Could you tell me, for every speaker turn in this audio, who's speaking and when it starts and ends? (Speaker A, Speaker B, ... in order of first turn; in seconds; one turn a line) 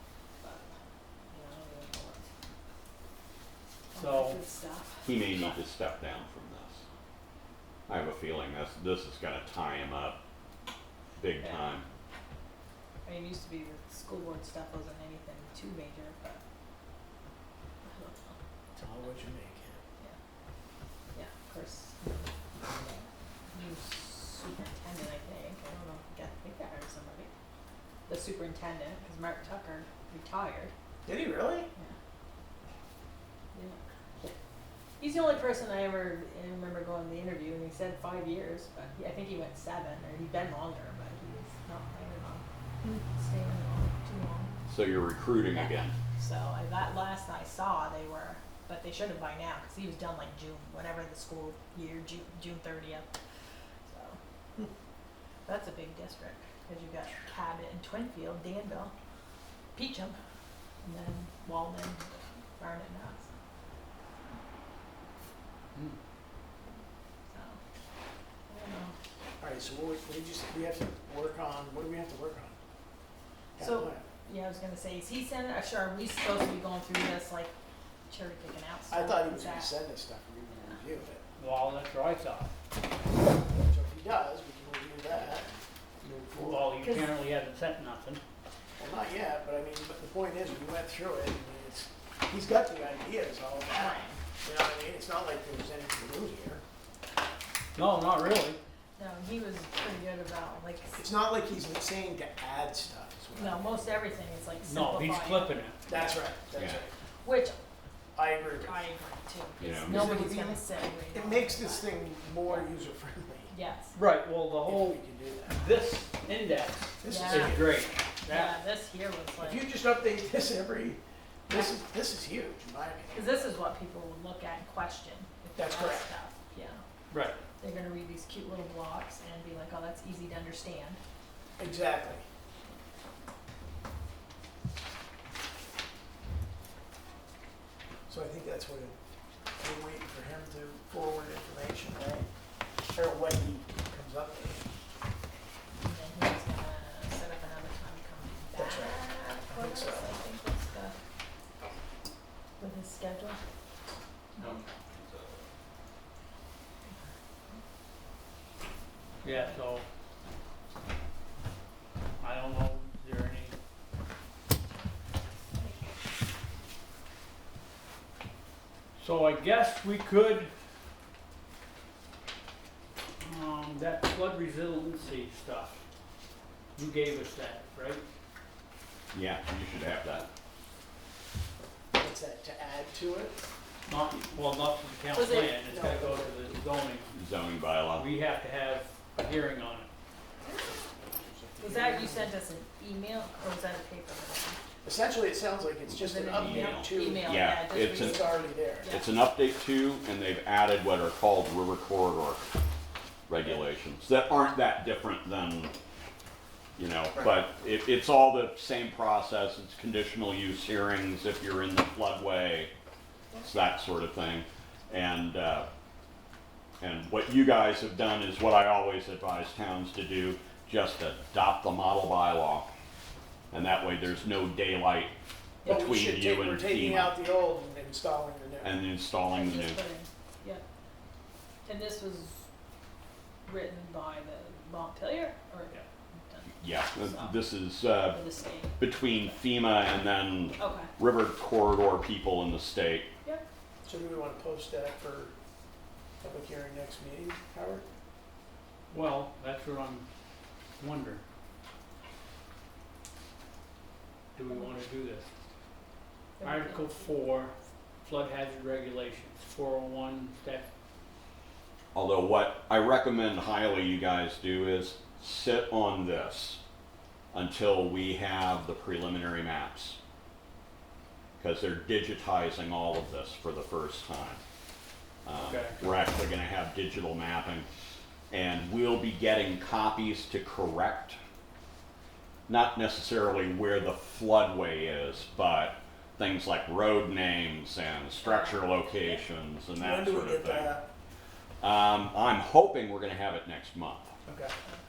Speaker A: 0.4-0.7
Speaker A: 1.3-2.2
Speaker A: 3.9-5.5
Speaker B: 3.9-4.4
Speaker C: 5.0-6.8
Speaker C: 7.9-10.2
Speaker C: 11.2-11.9
Speaker A: 11.4-11.7
Speaker A: 13.0-16.4
Speaker A: 17.8-18.4
Speaker D: 18.7-19.8
Speaker A: 21.1-22.3
Speaker A: 22.8-27.3
Speaker A: 28.1-30.7
Speaker D: 31.1-31.7
Speaker A: 33.5-33.8
Speaker A: 35.0-42.4
Speaker A: 43.0-44.5
Speaker C: 44.7-45.9
Speaker A: 45.5-53.1
Speaker A: 53.9-54.2
Speaker A: 55.5-58.9
Speaker A: 59.7-60.2
Speaker A: 60.8-63.3
Speaker A: 67.3-67.6
Speaker A: 68.5-68.9
Speaker D: 69.4-72.6
Speaker D: 73.6-74.0
Speaker A: 73.6-77.5
Speaker A: 78.1-79.7
Speaker D: 78.9-81.2
Speaker B: 81.4-82.5
Speaker D: 83.5-85.5
Speaker D: 86.0-86.7
Speaker B: 86.3-88.2
Speaker A: 86.8-87.1
Speaker D: 88.8-96.6
Speaker A: 93.7-94.1
Speaker B: 97.7-98.6
Speaker A: 99.0-101.0
Speaker D: 101.0-103.9
Speaker A: 103.3-106.2
Speaker B: 104.6-105.8
Speaker D: 105.9-106.9
Speaker C: 106.5-106.8
Speaker A: 107.2-107.5
Speaker D: 108.2-108.8
Speaker A: 108.6-111.9
Speaker C: 109.6-110.2
Speaker D: 109.8-113.5
Speaker A: 112.4-112.7
Speaker A: 113.5-114.0
Speaker B: 113.9-118.5
Speaker D: 114.7-115.6
Speaker D: 117.0-117.7
Speaker A: 117.0-117.6
Speaker A: 118.2-119.6
Speaker D: 119.4-123.5
Speaker A: 123.1-126.8
Speaker D: 125.5-126.1
Speaker B: 127.1-127.4
Speaker A: 127.6-131.0
Speaker D: 131.6-132.2
Speaker D: 138.1-138.9
Speaker D: 139.6-142.3
Speaker D: 142.9-144.6
Speaker A: 145.8-151.0
Speaker D: 148.5-150.1
Speaker A: 152.6-153.4
Speaker C: 154.4-155.4
Speaker A: 156.8-157.6
Speaker B: 159.2-159.8
Speaker A: 159.2-159.6
Speaker B: 162.2-163.6
Speaker A: 164.7-165.8
Speaker B: 169.0-170.5
Speaker B: 173.2-175.8
Speaker B: 176.8-178.0
Speaker C: 179.1-180.3
Speaker D: 181.9-183.4
Speaker B: 183.9-187.1
Speaker A: 185.1-185.6
Speaker D: 185.7-186.5
Speaker C: 187.1-188.1
Speaker B: 187.9-189.9
Speaker D: 191.2-192.3
Speaker A: 191.6-194.6
Speaker D: 194.8-198.9
Speaker A: 196.0-199.1
Speaker C: 196.2-198.3
Speaker C: 198.8-202.4
Speaker C: 203.3-205.7
Speaker C: 206.8-212.7
Speaker C: 213.4-215.7
Speaker C: 216.8-222.7
Speaker C: 223.5-225.1
Speaker C: 225.6-227.2
Speaker D: 225.6-228.8
Speaker C: 228.6-229.8
Speaker A: 229.3-230.6
Speaker A: 231.6-232.4
Speaker A: 233.4-235.8
Speaker A: 236.3-237.4
Speaker C: 236.6-238.2
Speaker A: 238.0-238.7
Speaker C: 238.8-243.1
Speaker A: 240.6-240.9
Speaker D: 243.8-245.3
Speaker D: 246.2-247.8
Speaker B: 248.9-250.1
Speaker B: 250.8-251.2
Speaker B: 254.3-255.3
Speaker A: 254.5-254.8
Speaker A: 256.4-257.1
Speaker B: 256.4-260.7
Speaker C: 261.9-266.6
Speaker C: 267.3-270.0
Speaker C: 271.4-274.4
Speaker C: 275.2-277.7
Speaker B: 275.3-275.9
Speaker C: 278.3-281.2
Speaker C: 282.5-290.8
Speaker A: 288.2-289.2
Speaker D: 289.8-290.8
Speaker C: 291.6-294.1
Speaker D: 294.2-294.5